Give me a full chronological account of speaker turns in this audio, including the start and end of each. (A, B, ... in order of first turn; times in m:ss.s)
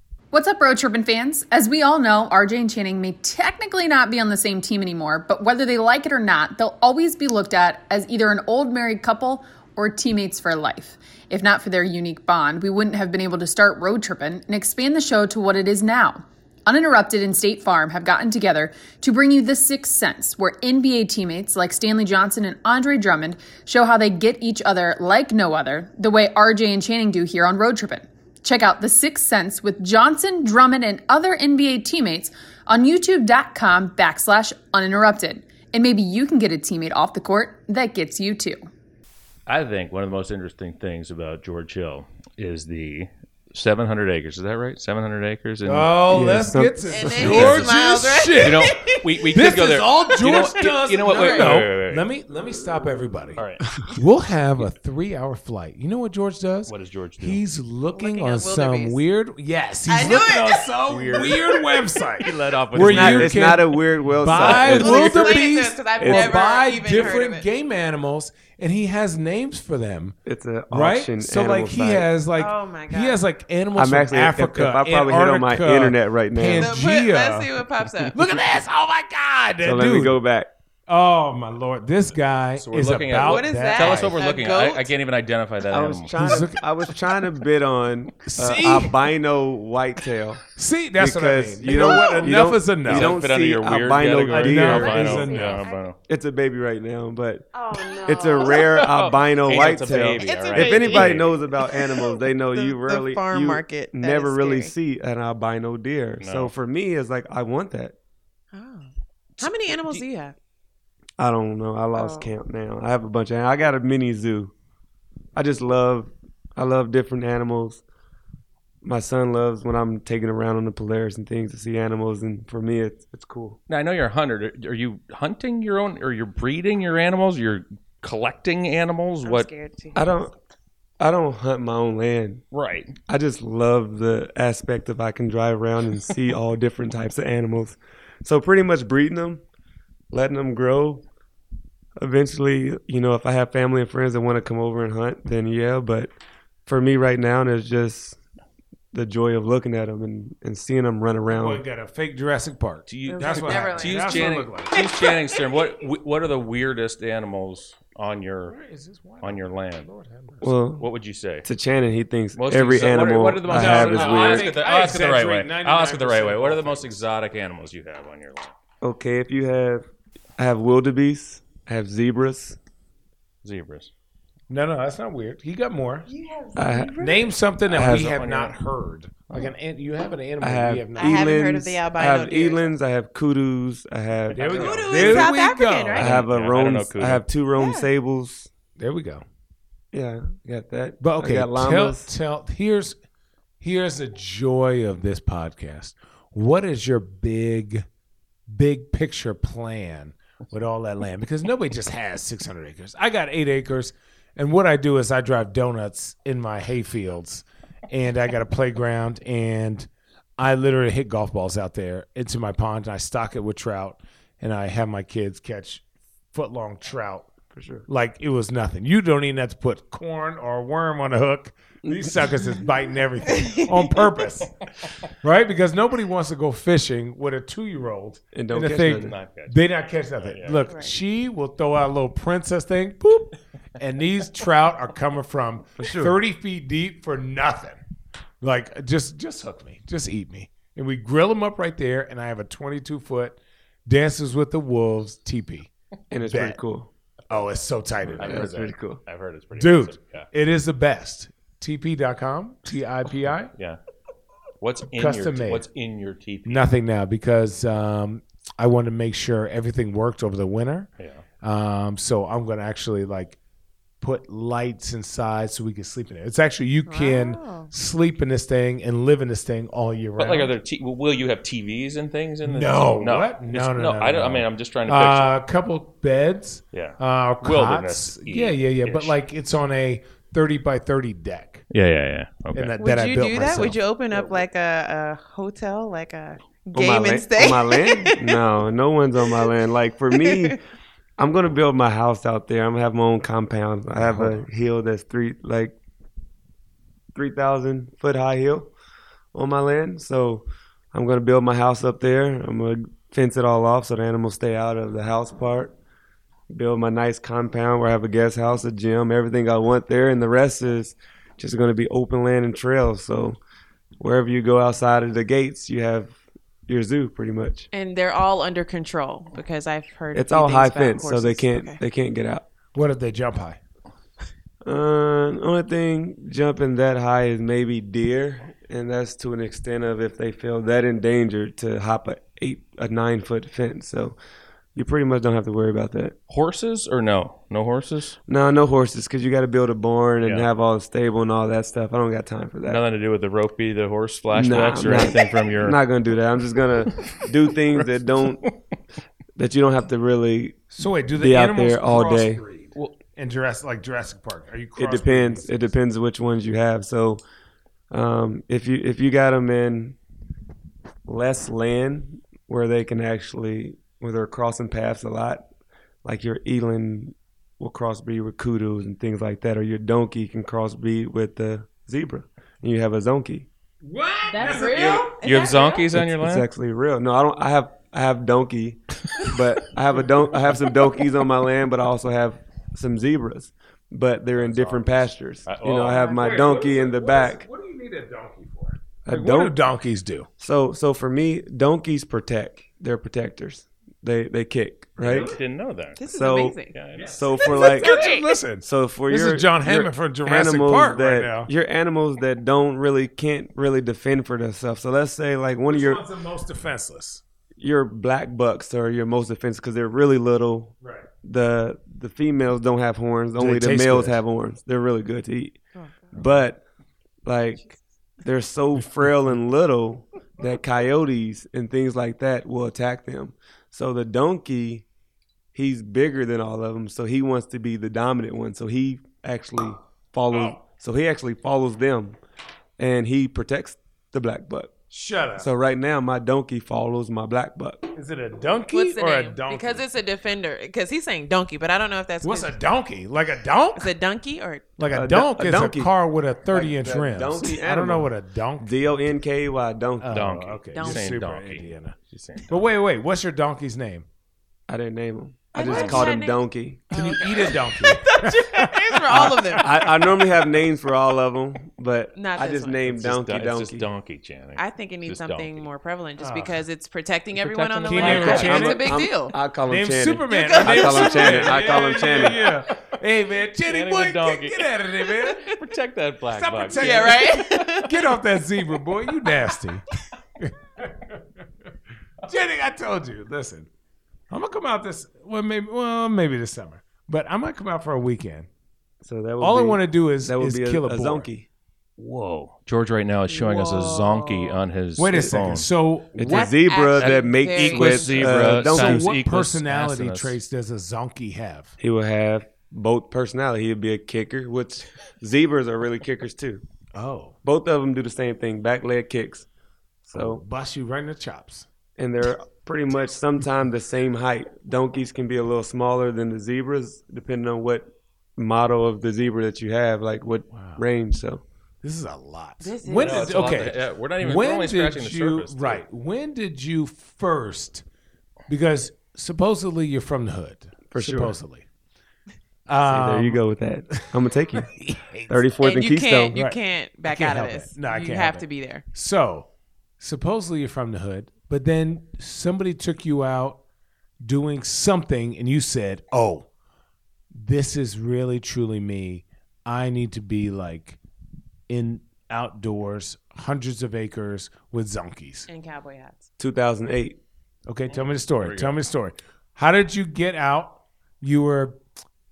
0:00.3-0:38.6 A
0:39.5-0:46.2 B
0:45.6-0:48.7 C
0:46.1-0:47.4 D
0:46.8-0:49.1 E
0:47.2-0:47.7 B
0:48.4-0:52.1 B
0:49.3-0:53.4 C
0:50.1-0:51.6 E
0:53.4-0:53.6 B
0:54.0-1:10.1 C
0:56.7-0:57.4 B
0:57.9-0:59.0 E
0:59.8-1:01.8 E
1:00.9-1:01.3 B
1:02.2-1:03.6 B
1:02.8-1:05.4 D
1:04.4-1:07.5 E
1:06.0-1:06.4 D
1:10.2-1:12.1 D
1:10.7-1:17.5 C
1:12.3-1:13.2 E
1:13.8-1:16.8 D
1:16.5-1:18.2 E
1:18.1-1:20.2 C
1:19.6-1:20.5 D
1:20.9-1:24.2 C
1:22.6-1:26.2 B
1:23.2-1:24.9 E
1:25.7-1:30.4 D
1:26.2-1:26.6 C
1:28.2-1:29.0 C
1:30.5-1:33.2 C
1:31.0-1:35.3 D
1:32.9-1:36.0 B
1:34.2-1:35.6 C
1:35.1-1:35.9 E
1:36.1-1:47.9 D
1:37.5-1:38.9 E
1:38.5-1:41.3 B
1:40.2-1:44.7 E
1:46.2-1:46.5 B
1:48.5-1:48.9 E
1:49.4-1:50.3 E
1:51.2-1:54.5 D
1:51.9-1:52.3 E
1:55.3-1:57.8 D
1:58.8-2:03.6 D
2:03.7-2:09.5 B
2:09.2-2:10.3 E
2:09.9-2:10.3 D
2:11.0-2:12.4 D
2:12.5-2:12.9 B
2:13.1-2:19.4 D
2:20.1-2:21.0 D
2:22.0-2:26.1 D
2:26.6-2:28.2 D
2:28.9-2:31.6 D
2:31.3-2:34.8 C
2:32.9-2:38.6 B
2:33.0-2:35.8 E
2:38.5-2:40.5 C
2:39.2-2:39.9 B
2:40.4-2:40.9 D
2:40.8-2:41.4 B
2:41.4-2:44.5 D
2:42.4-2:48.5 B
2:43.4-2:47.0 C
2:48.8-2:49.9 D
2:50.4-2:52.6 D
2:53.4-2:53.9 B
2:54.5-2:56.1 C
2:56.1-2:57.3 E
2:56.6-2:57.0 D
2:57.0-3:01.4 C
2:57.7-2:58.6 B
2:57.7-2:58.2 D
3:00.4-3:05.3 D
3:00.9-3:02.7 E
3:04.3-3:06.1 C
3:04.5-3:06.1 E
3:05.9-3:07.2 B
3:06.0-3:08.5 D
3:07.6-3:07.9 E
3:08.8-3:09.2 C
3:09.9-3:12.1 D
3:11.0-3:13.0 C
3:13.6-3:17.8 C
3:18.5-3:37.3 C
3:37.5-3:37.8 D
3:37.9-3:44.5 C
3:41.9-3:42.2 D
3:43.3-3:44.0 E
3:45.2-3:57.8 C
3:48.3-3:49.1 D
3:48.8-3:49.6 B
3:50.2-3:50.6 B
3:50.6-3:51.0 E
3:55.8-3:56.2 D
3:58.4-4:05.7 C
4:06.1-4:06.9 D
4:06.2-4:06.6 C
4:07.3-4:08.6 C
4:08.1-4:10.3 B
4:08.2-4:09.0 D
4:09.6-4:13.5 C
4:13.5-4:13.8 B
4:14.6-4:16.7 B
4:14.9-4:15.6 C
4:16.4-4:20.9 C
4:21.0-4:21.2 B
4:21.4-4:23.4 C
4:24.0-4:30.5 C
4:26.8-4:27.7 E
4:30.2-4:35.4 B
4:32.4-4:41.6 C
4:36.7-4:39.2 B
4:41.7-4:42.7 B
4:42.5-4:44.3 C
4:42.8-4:48.4 E
4:46.7-4:50.6 D
4:50.1-4:50.6 E
4:51.2-4:55.7 D
4:54.0-4:54.4 C
4:57.1-4:58.7 D
4:59.3-5:05.7 D
5:06.5-5:13.4 D
5:14.0-5:16.1 D
5:16.7-5:17.7 D
5:17.7-5:21.8 E
5:20.1-5:22.5 D
5:22.7-5:23.6 C
5:24.6-5:34.2 D
5:34.7-5:36.2 D
5:36.3-5:38.2 B
5:38.3-5:42.8 D
5:40.2-5:40.5 B
5:42.6-5:45.8 B
5:44.3-5:48.5 D
5:47.8-5:48.5 B
5:49.4-5:52.4 D
5:50.7-5:55.6 C
5:54.8-5:57.2 D
5:57.9-6:00.0 D
6:01.0-6:05.4 D
6:06.0-6:13.5 D
6:13.8-6:15.1 C
6:14.3-6:15.9 E
6:14.5-6:16.5 B
6:15.9-6:27.5 D
6:24.4-6:26.1 B
6:25.9-6:30.3 C
6:29.0-6:29.6 D
6:30.4-6:35.3 D
6:35.0-6:36.0 B
6:35.0-6:35.4 C
6:36.0-6:36.8 E
6:36.1-6:36.6 D
6:36.7-6:37.5 B
6:36.9-6:41.5 C
6:37.2-6:38.0 D
6:37.7-6:38.3 E
6:38.6-6:46.0 D
6:45.7-6:47.2 C
6:47.6-6:55.6 D
6:50.8-6:51.1 C
6:53.4-6:54.2 C
6:55.7-6:56.1 E
6:56.1-6:56.6 D
6:57.2-7:04.8 D
7:05.5-7:12.2 D
7:12.8-7:14.7 D
7:14.9-7:15.5 C
7:15.4-7:17.9 D
7:17.9-7:19.9 C
7:18.6-7:22.6 E
7:22.2-7:23.9 C
7:23.8-7:24.8 E
7:24.8-7:28.7 C
7:24.9-7:25.9 D
7:26.5-7:30.2 D
7:30.0-7:32.0 C
7:30.1-7:32.7 B
7:30.7-7:31.1 E
7:32.5-7:34.0 C
7:34.7-7:37.0 D
7:35.5-7:39.9 E
7:35.6-7:36.1 C
7:36.9-7:39.5 C
7:39.2-7:43.8 D
7:42.1-7:43.0 E
7:42.9-7:45.7 B
7:44.6-7:49.3 E
7:46.2-7:46.6 C
7:47.3-7:48.8 B
7:47.9-7:48.9 C
7:48.1-7:52.4 D
7:49.7-7:55.5 C
7:50.3-7:51.8 E
7:53.6-7:57.4 B
7:55.3-7:55.5 E
7:56.3-7:59.8 C
7:56.7-7:58.1 E
8:00.4-8:01.2 C
8:02.2-8:03.7 C
8:04.3-8:08.5 C
8:09.0-8:11.5 D
8:09.4-8:11.3 C
8:12.0-8:15.7 B
8:13.3-8:14.6 E
8:15.0-8:16.5 C
8:16.2-8:19.1 D
8:16.2-8:18.5 E
8:17.0-8:20.4 B
8:18.4-8:21.7 C
8:21.8-8:26.6 D
8:26.9-8:27.4 C
8:27.4-8:29.5 D
8:30.0-8:30.4 D
8:30.1-8:31.7 C
8:32.0-8:41.4 D
8:40.5-8:40.8 C
8:41.8-8:47.8 C
8:42.6-8:43.5 E
8:42.9-8:45.8 B
8:48.5-8:51.6 C
8:50.9-8:51.4 D
8:52.7-8:53.4 C
8:52.8-8:54.7 D
8:53.9-8:55.5 C
8:55.3-8:56.4 D
8:55.6-8:58.8 E
8:56.3-8:59.5 C
9:00.0-9:03.6 C
9:04.2-9:06.5 C
9:07.3-9:11.0 C
9:11.7-9:15.5 C
9:15.5-9:16.3 E
9:16.4-9:17.2 D
9:17.7-9:21.8 C
9:17.9-9:18.8 B